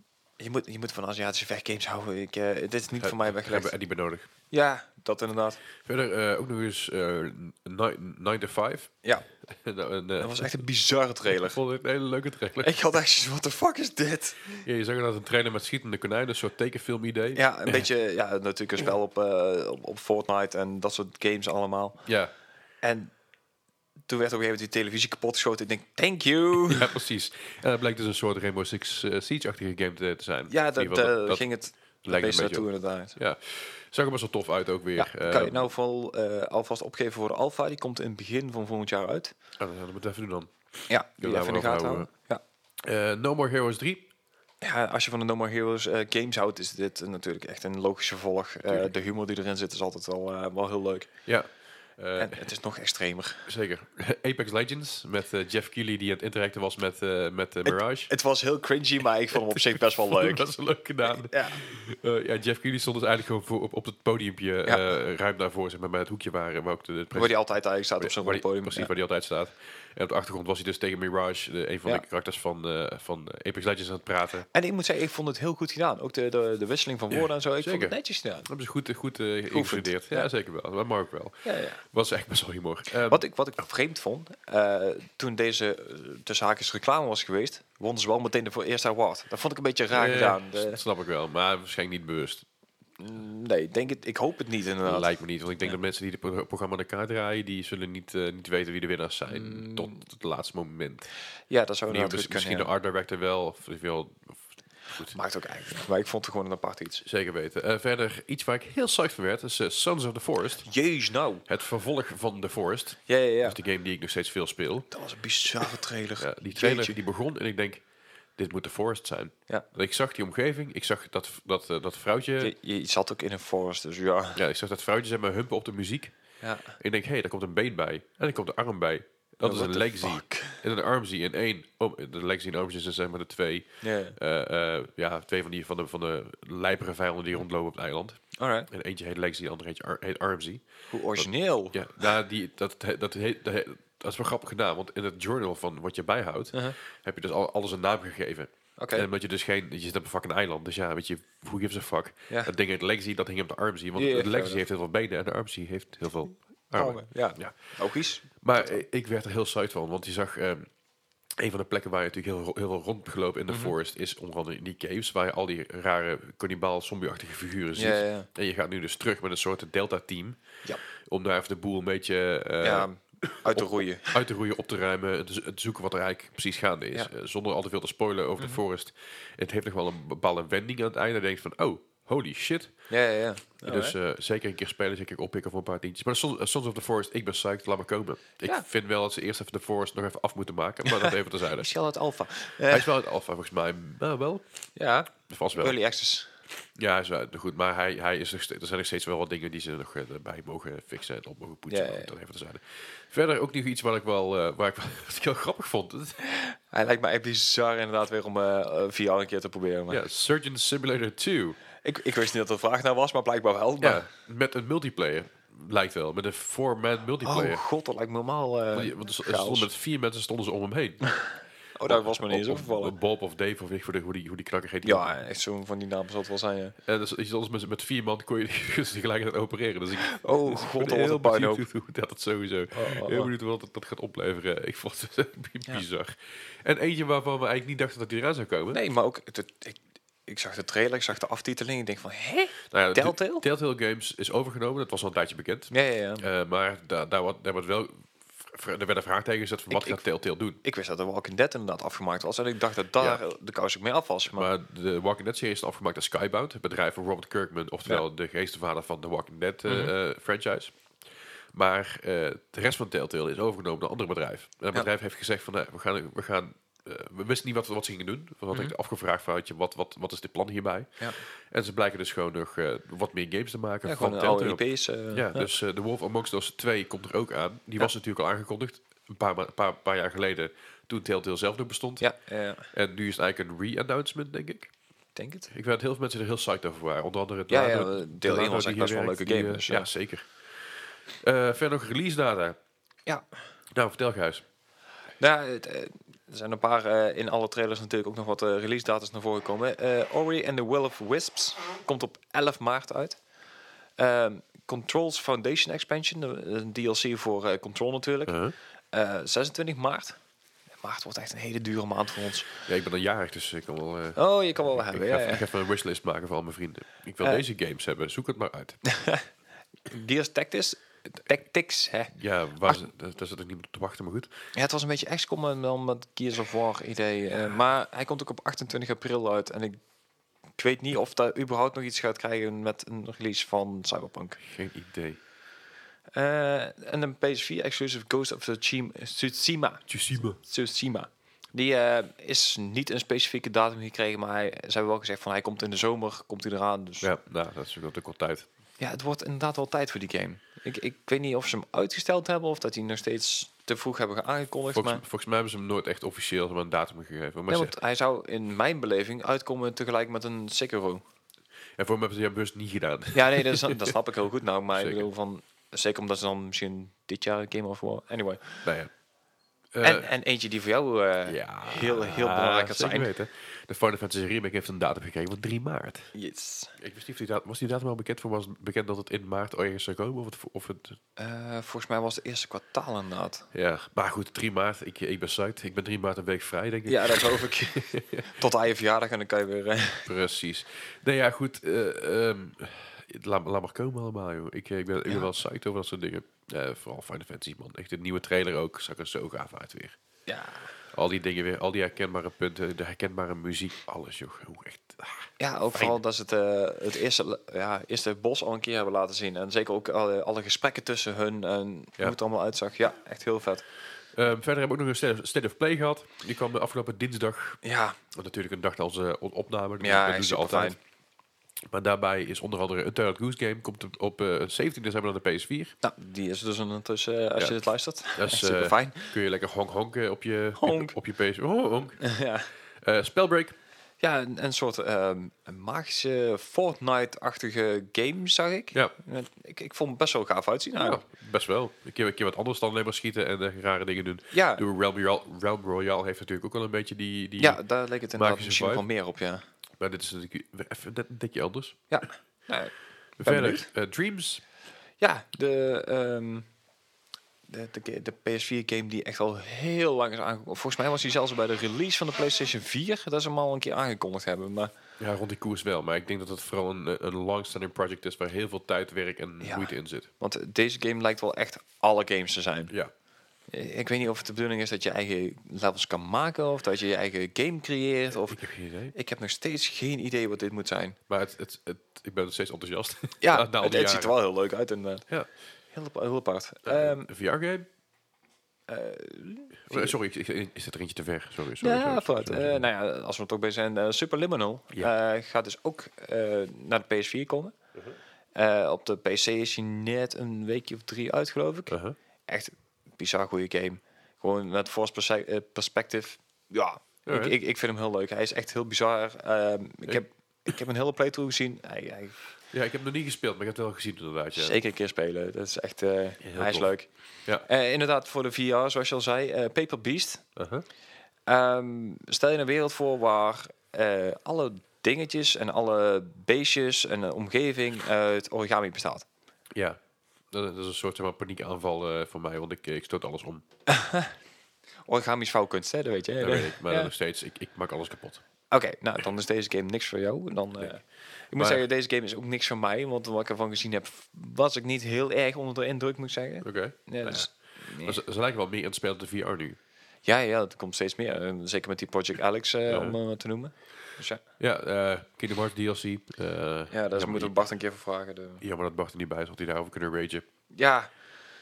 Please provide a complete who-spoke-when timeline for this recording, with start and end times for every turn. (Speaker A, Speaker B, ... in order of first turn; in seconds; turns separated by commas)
Speaker A: 0.4-3.7, Speaker B: 3.0-4.3, Speaker A: 4.5-5.6, Speaker B: 5.8-8.9, Speaker B: 9.5-10.6, Speaker A: 10.2-11.6, Speaker B: 11.3-12.7, Speaker A: 12.6-14.7, Speaker B: 14.6-17.9, Speaker A: 17.4-22.0, Speaker B: 22.1-22.3, Speaker A: 22.8-23.1, Speaker A: 24.1-26.9, Speaker B: 26.7-31.4, Speaker A: 30.5-33.2, Speaker B: 32.0-35.7, Speaker A: 35.0-39.3, Speaker B: 39.6-40.5, Speaker A: 40.9-42.4, Speaker B: 41.2-42.1, Speaker B: 42.8-44.1, Speaker A: 44.6-51.1, Speaker B: 51.3-52.4, Speaker A: 52.2-53.5, Speaker B: 53.5-58.1, Speaker A: 57.7-60.5, Speaker B: 59.3-67.4, Speaker A: 61.0-61.6, Speaker A: 67.2-68.9, Speaker B: 68.0-74.5, Speaker A: 74.5-78.5, Speaker B: 77.2-83.2, Speaker A: 79.5-80.3, Speaker A: 81.5-81.8, Speaker A: 83.1-90.8, Speaker B: 89.9-92.5, Speaker A: 93.0-95.7, Speaker B: 94.8-101.1, Speaker A: 99.3-100.0, Speaker A: 101.5-102.7, Speaker B: 101.9-104.4, Speaker A: 105.1-107.0, Speaker B: 107.0-110.7, Speaker A: 110.6-111.4, Speaker B: 111.5-114.9, Speaker A: 113.1-113.6, Speaker A: 114.9-117.0, Speaker B: 115.7-117.8, Speaker B: 118.4-122.5, Speaker A: 122.4-124.4, Speaker B: 124.4-126.1, Speaker A: 126.4-126.8, Speaker B: 126.8-140.6, Speaker A: 129.4-130.6, Speaker A: 133.8-134.2, Speaker A: 138.4-138.7, Speaker A: 140.9-142.1, Speaker B: 141.2-157.6, Speaker A: 148.8-149.1, Speaker A: 154.0-154.6, Speaker A: 156.7-158.8, Speaker B: 158.4-160.7, Speaker B: 161.4-170.4, Speaker A: 167.8-168.3, Speaker B: 171.0-182.7, Speaker A: 172.6-174.2, Speaker A: 182.9-183.9, Speaker B: 183.6-191.7, Speaker A: 190.9-192.9, Speaker B: 192.7-194.4, Speaker A: 194.8-196.3, Speaker B: 195.3-195.8, Speaker B: 196.8-206.2, Speaker A: 201.7-202.1, Speaker A: 206.2-210.0, Speaker B: 209.9-211.6, Speaker A: 211.8-214.1, Speaker B: 213.8-217.6, Speaker A: 217.2-219.7, Speaker B: 218.7-221.2, Speaker A: 221.8-222.9, Speaker B: 221.9-225.1, Speaker A: 224.8-226.8, Speaker B: 226.9-238.8, Speaker A: 230.0-231.6, Speaker A: 232.7-233.3, Speaker A: 238.7-243.4, Speaker B: 242.7-250.6, Speaker A: 245.7-246.3, Speaker A: 249.7-250.0, Speaker A: 250.6-254.5, Speaker B: 254.3-260.8, Speaker A: 259.7-259.9, Speaker B: 261.5-282.0, Speaker A: 273.9-275.5, Speaker A: 282.0-282.7, Speaker B: 282.7-284.7, Speaker A: 285.2-285.5, Speaker B: 285.5-290.3, Speaker A: 287.5-289.9, Speaker B: 291.2-292.6, Speaker B: 293.7-294.4, Speaker A: 295.2-303.2, Speaker A: 304.0-308.4, Speaker B: 308.3-308.6, Speaker A: 308.9-310.2, Speaker A: 310.8-312.5, Speaker B: 312.7-314.2, Speaker A: 314.2-315.4, Speaker B: 314.7-318.8, Speaker A: 318.9-319.3, Speaker A: 319.9-322.8, Speaker B: 322.1-324.3, Speaker A: 324.6-329.8, Speaker A: 330.6-334.4, Speaker B: 334.4-335.2, Speaker A: 336.2-347.1, Speaker B: 339.9-340.4, Speaker B: 347.0-348.5, Speaker A: 348.8-355.0, Speaker B: 354.7-357.8, Speaker A: 357.5-361.0, Speaker B: 361.8-363.9, Speaker A: 363.1-368.6, Speaker B: 364.7-365.1, Speaker B: 368.6-368.9, Speaker B: 369.7-370.1, Speaker A: 369.8-373.1, Speaker B: 371.3-376.1, Speaker A: 376.1-376.8, Speaker B: 376.8-381.0, Speaker A: 381.2-383.5, Speaker B: 383.5-388.3, Speaker A: 386.9-390.1, Speaker B: 390.1-400.0, Speaker A: 400.3-400.7, Speaker B: 400.9-406.0, Speaker A: 405.4-413.6, Speaker B: 414.1-417.6, Speaker A: 417.6-418.0, Speaker B: 418.1-420.8, Speaker A: 419.8-420.8, Speaker B: 421.7-425.7, Speaker A: 425.8-429.1, Speaker B: 428.1-432.0, Speaker A: 430.6-430.9, Speaker A: 432.0-432.5, Speaker B: 432.8-433.6, Speaker A: 434.0-441.0, Speaker B: 440.8-447.6, Speaker A: 444.3-444.6, Speaker A: 447.4-449.4, Speaker B: 448.1-448.9, Speaker B: 449.8-451.8, Speaker A: 451.9-452.7, Speaker B: 453.2-454.4, Speaker A: 453.2-453.7, Speaker A: 455.0-456.5, Speaker A: 457.5-464.7, Speaker B: 465.0-470.1, Speaker A: 469.4-472.7, Speaker A: 473.5-481.0, Speaker B: 478.3-478.9, Speaker B: 481.1-484.1, Speaker A: 483.2-485.1, Speaker A: 485.7-487.1, Speaker B: 486.7-487.7, Speaker A: 488.7-490.0, Speaker B: 489.7-492.6, Speaker A: 491.6-497.5, Speaker A: 498.4-501.8, Speaker B: 501.7-502.0, Speaker A: 502.3-512.2, Speaker B: 507.1-507.4, Speaker B: 512.5-514.6, Speaker A: 514.3-516.9, Speaker B: 516.2-516.7, Speaker A: 517.5-520.2, Speaker B: 520.4-520.7, Speaker A: 521.3-529.1, Speaker B: 530.3-533.4, Speaker A: 533.7-534.1, Speaker A: 534.9-536.9, Speaker B: 536.2-538.2, Speaker A: 538.5-548.0, Speaker B: 541.4-541.6, Speaker B: 546.4-549.6, Speaker A: 550.1-554.2, Speaker B: 552.7-553.0, Speaker B: 554.4-557.5, Speaker A: 556.7-558.4, Speaker B: 558.4-560.3, Speaker A: 560.5-560.9